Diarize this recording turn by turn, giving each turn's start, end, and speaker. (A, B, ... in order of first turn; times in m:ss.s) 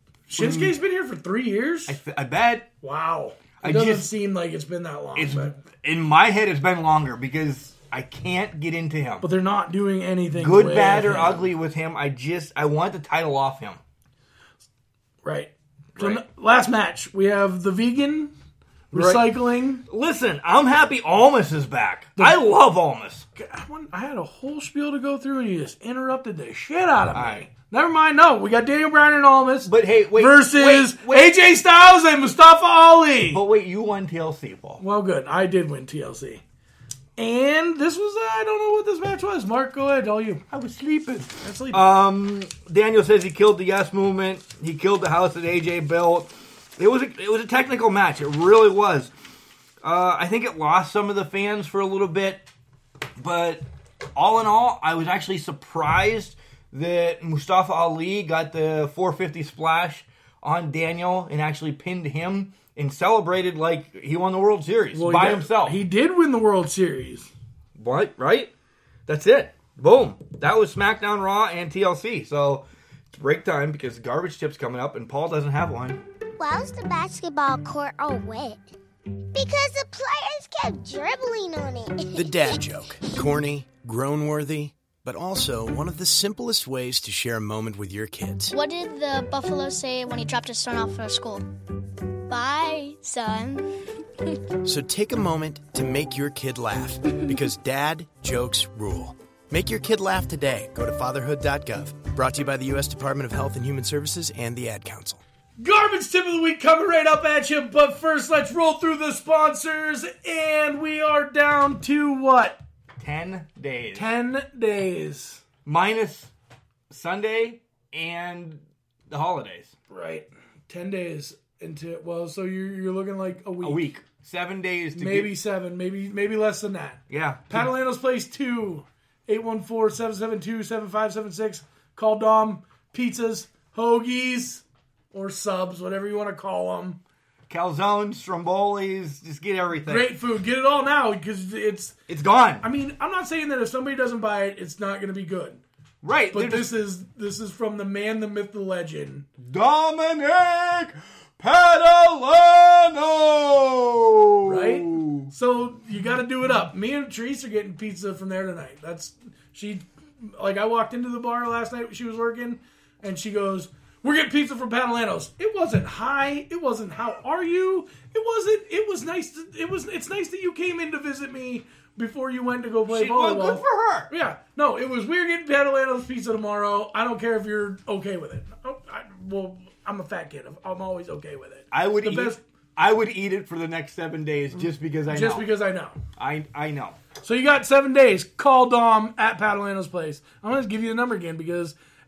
0:00.3-0:02.0 A
0:00.4-0:00.7 B
0:01.9-0:02.7 B
0:02.8-0:05.6 A
0:03.6-0:04.1 B
0:05.1-0:09.2 B
0:09.2-0:11.5 A
0:10.4-0:13.8 B
0:15.2-0:18.3 A
0:18.9-0:19.2 B
0:18.9-0:19.8 A
0:19.9-0:23.2 B
0:23.4-0:33.4 A
0:27.1-0:27.4 B
0:29.6-0:31.3 B
0:33.3-0:34.8 B
0:34.8-0:36.4 A
0:37.2-0:40.4 A
0:40.5-0:49.1 B
0:41.4-0:41.8 A
0:49.8-0:52.4 B
0:53.2-0:53.6 B
0:54.1-1:05.8 B
1:04.9-1:07.3 A
1:07.8-1:08.5 B
1:09.1-1:16.0 B
1:16.4-1:18.7 C
1:19.3-1:23.1 C
1:22.1-1:28.5 D
1:28.5-1:31.4 E
1:32.3-1:34.4 E
1:34.6-1:45.2 D
1:45.6-1:52.6 A
1:53.0-1:54.1 B
1:53.9-1:55.4 A
1:55.6-1:56.3 B
1:56.9-1:59.7 B
1:59.9-2:03.8 A
2:03.6-2:05.3 B
2:05.0-2:17.0 A
2:07.1-2:07.7 B
2:17.5-2:20.1 B
2:19.8-2:22.0 A
2:22.1-2:22.6 B
2:22.6-2:25.6 A
2:26.0-2:26.7 B
2:26.3-2:29.2 A
2:29.4-2:35.3 B
2:34.4-3:02.4 A
2:52.9-2:54.1 B
3:01.7-3:05.4 B
3:05.1-3:06.0 A
3:06.2-3:07.0 B
3:07.2-3:11.7 A